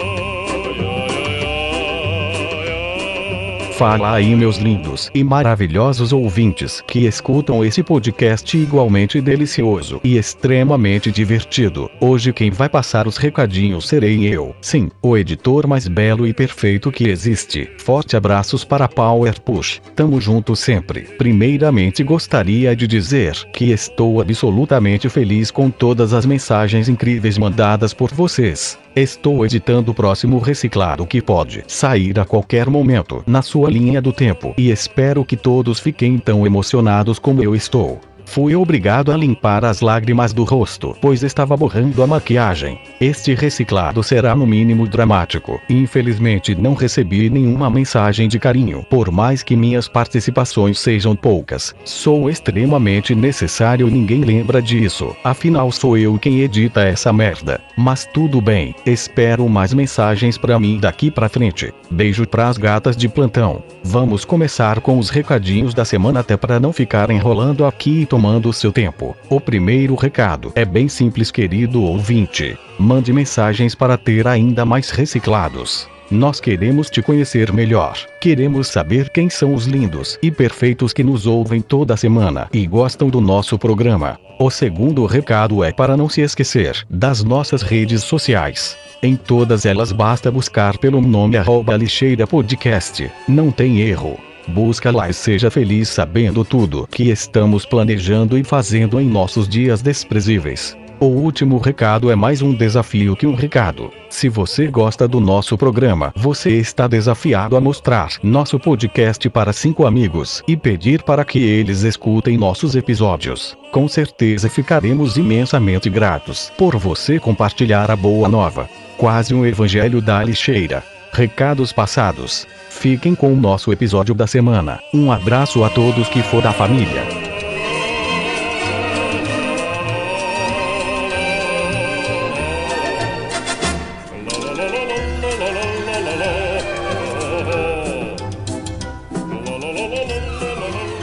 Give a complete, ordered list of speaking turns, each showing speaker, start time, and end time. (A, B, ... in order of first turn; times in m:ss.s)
0:03.7-2:07.1 A